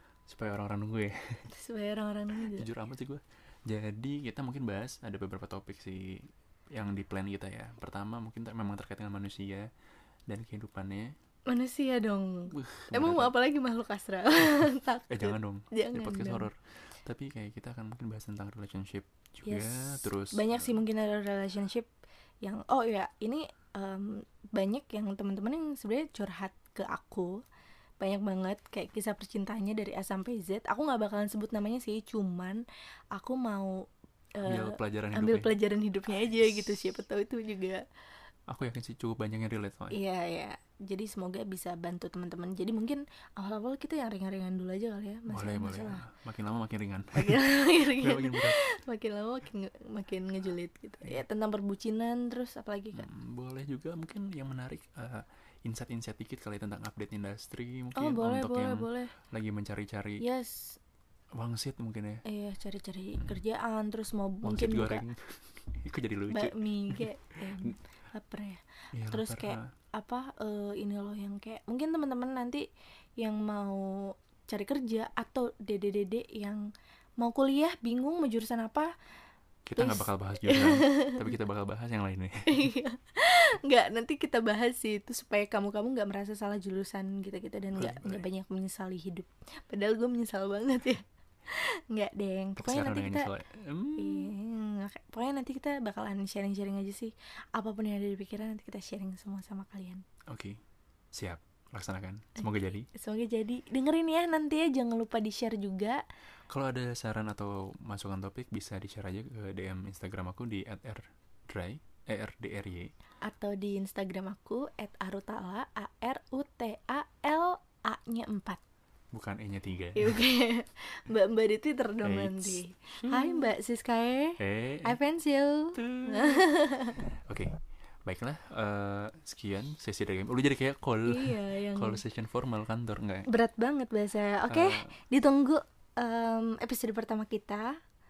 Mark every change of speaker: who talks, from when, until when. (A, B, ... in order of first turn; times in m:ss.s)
0:00.3-0:01.5 A
0:01.5-0:02.7 B
0:02.4-0:09.7 A
0:10.3-0:11.1 A
0:11.5-0:16.5 B
0:12.5-0:13.4 A
0:15.1-0:20.8 A
0:19.4-0:21.9 B
0:22.4-0:27.4 B
0:28.0-0:32.6 B
0:33.1-0:33.8 B
0:34.4-0:37.8 B
0:34.4-0:35.6 A
0:38.5-0:40.0 A
0:39.9-0:46.0 B
0:45.3-0:48.6 A
0:47.1-0:53.1 B
0:52.9-1:00.2 A
0:58.0-0:59.1 B
1:00.2-1:00.8 B
1:01.3-1:02.2 A
1:02.2-1:05.0 B
1:04.4-1:07.7 A
1:06.3-1:12.6 B
1:08.9-1:09.7 A
1:13.2-1:16.6 B
1:17.2-1:18.9 B
1:19.6-1:22.6 A
1:19.8-1:21.3 B
1:22.5-1:33.3 B
1:27.7-1:28.2 A
1:32.6-1:34.3 A
1:34.0-1:40.0 B
1:40.3-1:40.6 A
1:41.1-1:42.9 A
1:42.4-1:46.0 B
1:46.5-1:52.9 A
1:53.2-1:58.6 B
1:59.1-2:00.2 A
1:59.9-2:07.1 B
2:02.0-2:03.5 A
2:04.4-2:05.0 A
2:05.8-2:13.3 A
2:11.0-2:12.0 B
2:13.2-2:17.8 B
2:14.5-2:14.9 A